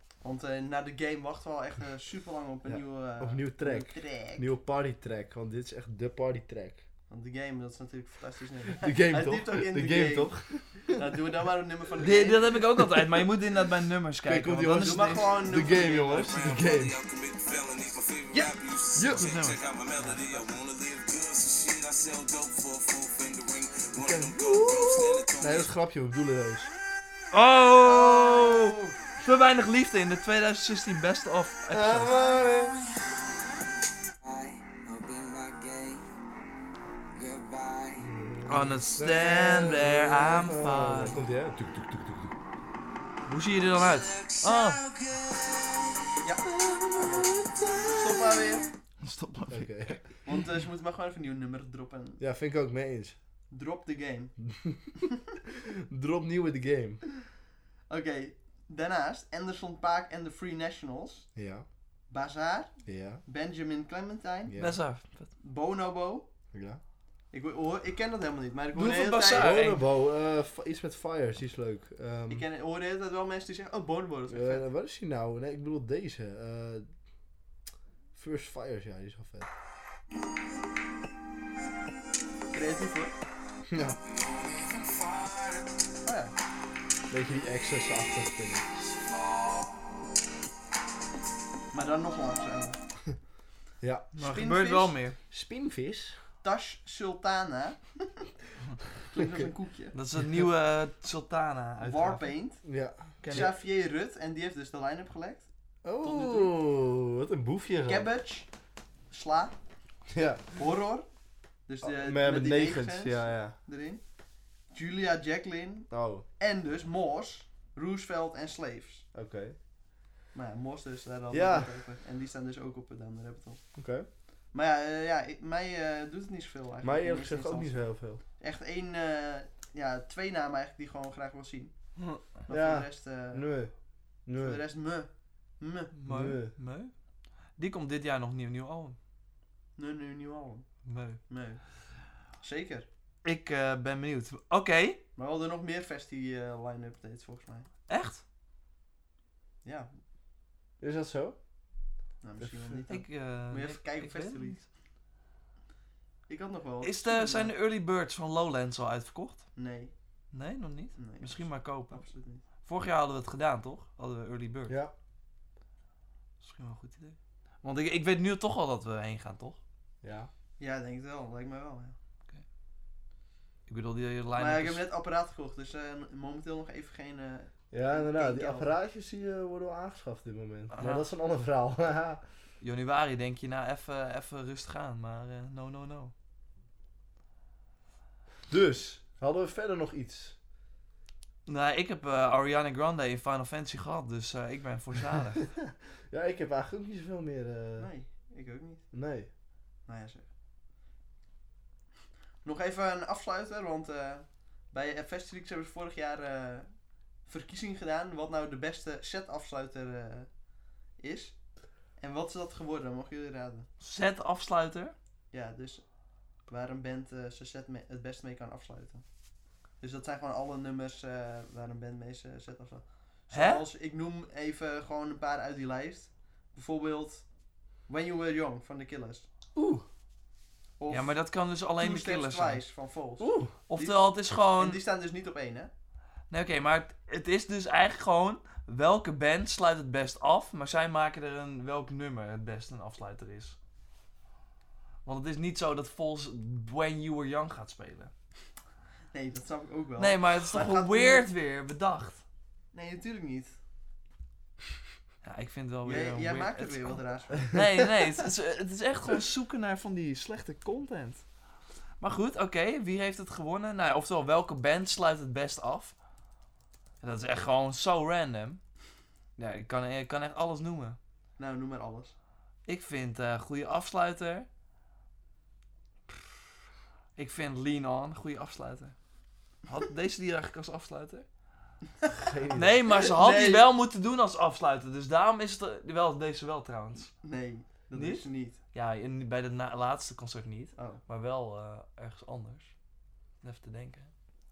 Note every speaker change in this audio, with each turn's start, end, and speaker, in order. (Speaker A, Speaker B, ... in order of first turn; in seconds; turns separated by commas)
Speaker A: 0.2-4.5, Speaker B: 2.6-6.8, Speaker A: 7.1-10.3, Speaker B: 8.8-10.9, Speaker A: 10.9-12.5, Speaker C: 12.0-15.4, Speaker B: 12.8-13.2, Speaker B: 14.2-16.9, Speaker A: 14.7-16.5, Speaker D: 16.3-25.6, Speaker B: 18.4-19.3, Speaker C: 19.0-19.6, Speaker A: 20.0-20.5, Speaker B: 24.0-26.7, Speaker C: 27.3-32.1, Speaker A: 27.8-29.0, Speaker B: 31.7-32.9, Speaker D: 34.2-36.0, Speaker D: 37.1-38.1, Speaker B: 38.0-42.0, Speaker C: 38.5-41.2, Speaker C: 43.3-44.8, Speaker D: 43.8-46.1, Speaker A: 46.2-46.5, Speaker B: 46.4-48.4, Speaker A: 47.8-48.7, Speaker C: 49.0-50.0, Speaker B: 49.5-50.0, Speaker A: 50.2-52.2, Speaker B: 52.2-53.1, Speaker A: 53.5-54.3, Speaker B: 54.5-57.0, Speaker A: 57.9-61.3, Speaker B: 61.4-61.6, Speaker A: 62.1-62.7, Speaker B: 62.9-63.2, Speaker A: 63.2-64.5, Speaker B: 64.5-64.8, Speaker C: 64.6-65.3, Speaker A: 65.4-66.3, Speaker B: 66.5-66.8, Speaker A: 67.3-69.6, Speaker C: 68.7-69.8, Speaker B: 69.3-72.5, Speaker A: 72.3-74.7, Speaker B: 74.3-76.9, Speaker B: 78.1-79.5, Speaker A: 82.5-83.1, Speaker B: 83.7-84.0, Speaker D: 84.1-85.8, Speaker A: 86.0-86.3, Speaker B: 87.1-88.6, Speaker D: 89.1-89.7, Speaker A: 91.7-92.8, Speaker B: 93.8-94.1, Speaker C: 94.1-95.2, Speaker A: 94.2-94.9, Speaker B: 95.3-96.2, Speaker A: 96.4-98.3, Speaker A: 99.1-100.0, Speaker B: 99.2-99.5, Speaker C: 99.9-102.3, Speaker A: 101.8-102.6, Speaker B: 102.6-103.5, Speaker C: 103.2-103.5, Speaker A: 103.3-105.5, Speaker B: 105.8-108.1, Speaker A: 106.0-106.5, Speaker A: 107.8-108.5, Speaker A: 109.1-109.5, Speaker B: 110.1-110.4, Speaker A: 110.6-111.1, Speaker A: 111.7-114.0, Speaker B: 111.8-113.5, Speaker A: 114.7-119.0, Speaker B: 115.9-116.2, Speaker B: 119.1-119.5, Speaker A: 120.3-123.6, Speaker B: 121.3-121.7, Speaker B: 123.8-124.1, Speaker A: 124.5-127.8, Speaker B: 126.8-128.2, Speaker A: 128.4-131.7, Speaker C: 132.0-132.2, Speaker A: 132.4-133.4, Speaker B: 132.5-133.7, Speaker B: 134.2-134.6, Speaker A: 134.3-135.9, Speaker C: 135.9-136.9, Speaker B: 136.1-136.5, Speaker C: 137.6-139.0, Speaker A: 139.8-140.7, Speaker C: 140.8-141.2, Speaker A: 141.3-141.6, Speaker A: 142.4-142.9, Speaker C: 143.2-145.0, Speaker A: 145.2-147.7, Speaker C: 147.9-148.2, Speaker A: 149.6-149.9, Speaker B: 150.8-151.4, Speaker A: 152.2-154.6, Speaker B: 152.4-152.8, Speaker C: 152.9-154.6, Speaker A: 156.3-157.5, Speaker C: 156.8-159.4, Speaker A: 159.6-159.9, Speaker C: 160.3-162.0, Speaker A: 161.0-162.4, Speaker C: 162.6-164.8, Speaker B: 164.7-164.9, Speaker C: 166.4-169.6, Speaker B: 170.0-170.3, Speaker A: 170.6-171.9, Speaker C: 173.7-174.8, Speaker A: 174.3-178.7, Speaker B: 177.7-182.2, Speaker C: 180.7-181.0, Speaker C: 182.6-186.1, Speaker B: 188.5-190.3, Speaker C: 191.4-195.5, Speaker B: 195.6-197.9, Speaker A: 197.8-198.8, Speaker B: 198.9-199.3, Speaker A: 199.9-200.2, Speaker A: 202.4-206.7, Speaker A: 207.2-210.3, Speaker A: 211.0-211.3, Speaker A: 212.0-213.7, Speaker C: 213.8-214.9, Speaker A: 215.3-215.8, Speaker A: 216.5-219.0, Speaker A: 219.8-227.2, Speaker C: 223.3-223.7, Speaker A: 227.9-229.2, Speaker B: 229.5-229.8, Speaker A: 230.8-231.2, Speaker C: 230.9-232.6, Speaker A: 231.8-235.7, Speaker B: 233.2-233.5, Speaker C: 233.7-234.8, Speaker C: 236.3-243.6, Speaker C: 245.0-248.1, Speaker A: 249.1-251.2, Speaker C: 250.0-252.2, Speaker A: 252.7-253.5, Speaker C: 255.2-261.2, Speaker A: 255.8-257.6, Speaker C: 262.0-265.9, Speaker C: 267.0-268.6, Speaker C: 269.4-271.0, Speaker A: 271.4-272.1, Speaker C: 272.6-274.5, Speaker C: 277.1-278.9, Speaker C: 279.7-281.2, Speaker B: 282.1-282.8, Speaker C: 282.5-287.1, Speaker A: 282.9-283.6, Speaker A: 287.2-288.6, Speaker C: 287.9-292.7, Speaker C: 293.4-294.1